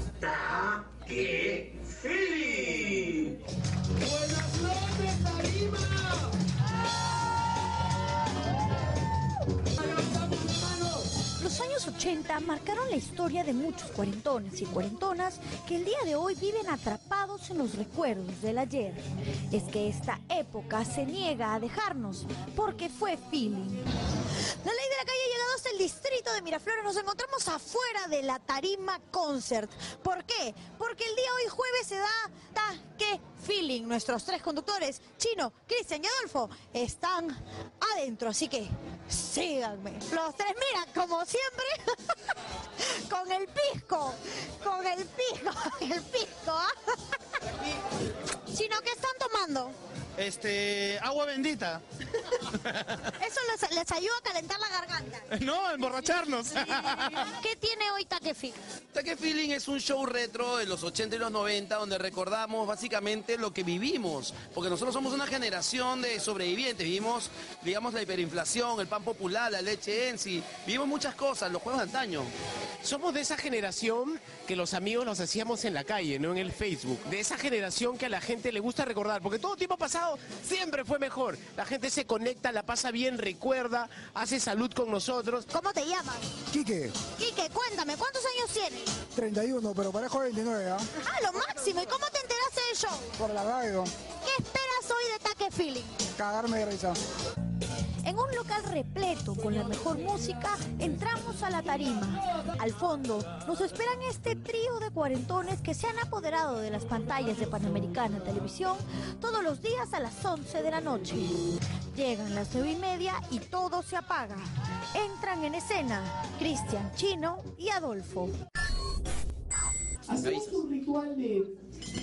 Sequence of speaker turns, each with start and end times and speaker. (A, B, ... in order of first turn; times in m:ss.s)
0:00.2-0:03.3 A
0:04.2-0:05.9 B
0:10.4-0:10.7 C
0:11.4-0:23.8 C
0:24.6-0:42.0 C
0:42.8-0:46.9 C
0:48.5-0:49.8 C
0:50.2-0:51.8 D
0:53.2-0:55.3 C
0:55.3-0:57.3 D
0:57.2-0:58.6 C
0:58.9-1:12.3 E
0:59.0-1:03.2 B
1:03.7-1:12.2 B
1:12.8-1:25.5 A
1:25.5-1:26.3 C
1:26.5-1:27.0 F
1:27.1-1:29.0 C
1:29.1-1:30.9 F
1:31.0-1:33.1 C
1:33.2-1:33.9 F
1:34.2-1:36.0 C
1:36.2-1:37.0 F
1:38.0-1:51.4 C
1:51.9-1:58.4 C
2:00.1-2:01.5 A